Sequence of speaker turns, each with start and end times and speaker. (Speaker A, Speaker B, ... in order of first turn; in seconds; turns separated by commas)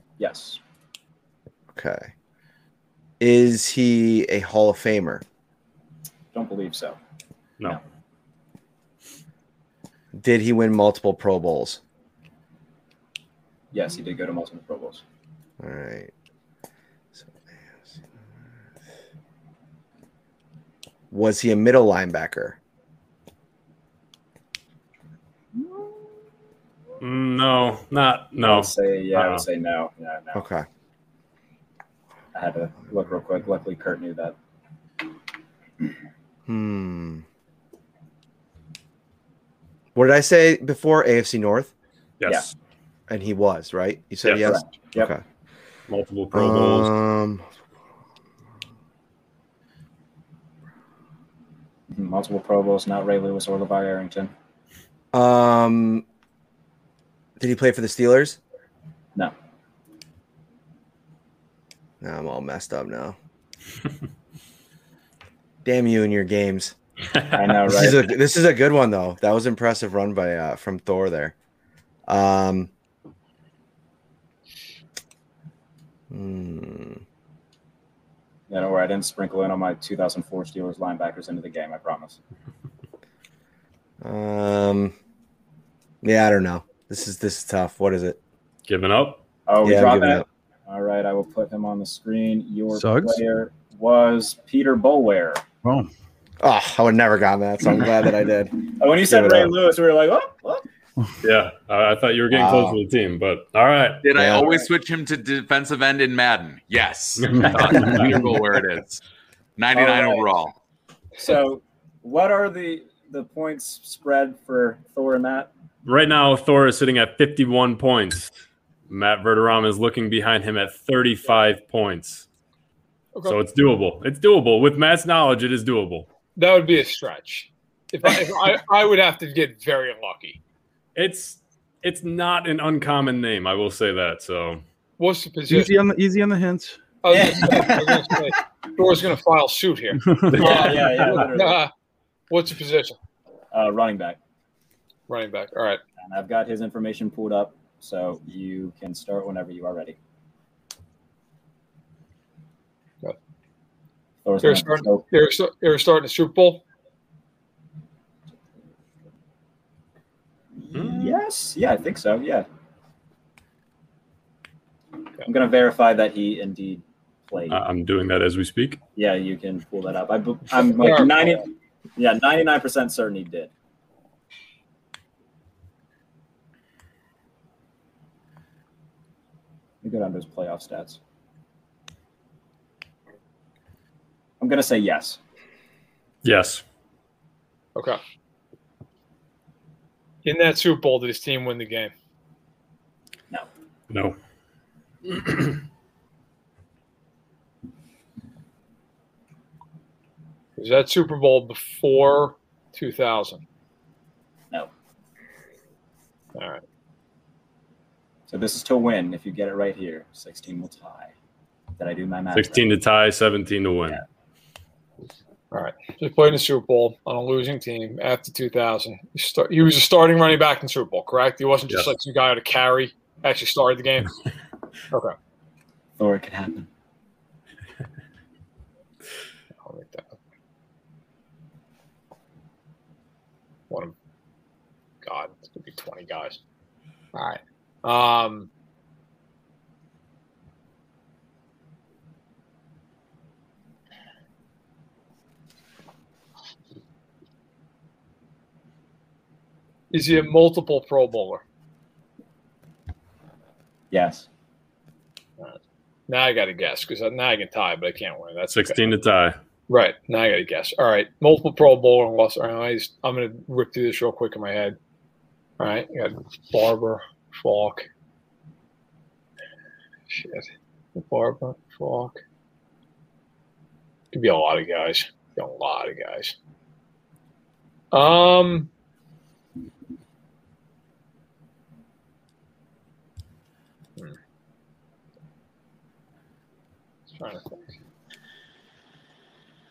Speaker A: 0.2-0.6, Speaker B: 1.7-2.1, Speaker B: 3.2-5.2, Speaker A: 6.3-7.0, Speaker B: 10.1-11.8, Speaker A: 13.7-15.0, Speaker B: 15.6-16.1, Speaker B: 17.1-18.0, Speaker B: 21.1-22.6, Speaker C: 27.0-29.4, Speaker A: 28.4-30.4, Speaker B: 30.3-30.6, Speaker A: 32.3-34.4, Speaker B: 36.5-37.2, Speaker B: 39.9-41.7, Speaker C: 42.2-42.5, Speaker B: 43.1-45.2, Speaker A: 44.2-45.1, Speaker C: 45.9-46.9, Speaker B: 46.3-47.5, Speaker A: 51.9-54.3, Speaker B: 55.1-56.0, Speaker B: 57.4-58.4, Speaker B: 62.0-63.1, Speaker B: 65.6-66.8, Speaker A: 67.3-68.1, Speaker B: 67.7-71.3, Speaker B: 72.0-72.7, Speaker B: 76.1-77.0, Speaker A: 78.5-82.2, Speaker B: 84.0-84.9, Speaker B: 86.0-88.2, Speaker C: 88.7-89.2, Speaker A: 89.5-95.4, Speaker B: 89.6-90.2, Speaker D: 92.7-93.2, Speaker D: 95.6-95.9, Speaker B: 96.4-99.5, Speaker A: 98.8-100.7, Speaker C: 101.2-104.0, Speaker B: 102.3-102.8, Speaker E: 104.0-109.0, Speaker B: 104.1-104.5, Speaker C: 107.2-108.2, Speaker D: 107.4-108.2, Speaker E: 109.6-110.5, Speaker A: 109.7-110.3, Speaker A: 111.2-115.5, Speaker C: 115.8-118.3, Speaker C: 118.9-122.3, Speaker F: 123.1-123.4, Speaker C: 123.3-126.1, Speaker F: 126.3-130.4, Speaker C: 130.9-134.6, Speaker F: 135.0-135.7, Speaker D: 135.5-136.8, Speaker F: 137.0-141.7, Speaker A: 137.1-138.3, Speaker D: 140.0-140.9, Speaker A: 140.3-141.6, Speaker F: 142.3-142.9, Speaker A: 143.5-144.2, Speaker F: 145.1-145.8, Speaker A: 146.0-150.0, Speaker A: 154.2-155.0, Speaker F: 154.4-156.6, Speaker A: 160.5-162.4, Speaker C: 160.7-161.2, Speaker A: 165.2-167.6, Speaker C: 167.5-168.8, Speaker A: 168.9-173.5, Speaker F: 170.8-171.3, Speaker A: 179.8-181.0, Speaker A: 184.4-185.2, Speaker C: 186.2-186.6, Speaker F: 190.2-191.9, Speaker C: 193.9-194.2, Speaker C: 195.2-195.5, Speaker F: 200.6-203.4, Speaker F: 206.3-206.6, Speaker A: 208.3-211.1, Speaker A: 211.8-212.7, Speaker C: 212.3-214.0, Speaker F: 215.5-224.2, Speaker A: 226.0-226.7, Speaker F: 229.6-230.1, Speaker F: 235.0-236.4, Speaker F: 237.1-238.5, Speaker F: 249.9-251.4, Speaker A: 253.9-254.3, Speaker F: 255.4-258.9, Speaker C: 258.5-259.4, Speaker F: 259.7-264.8, Speaker F: 265.6-267.9, Speaker F: 270.1-272.2, Speaker F: 274.1-276.3, Speaker F: 277.9-278.7, Speaker F: 287.1-287.7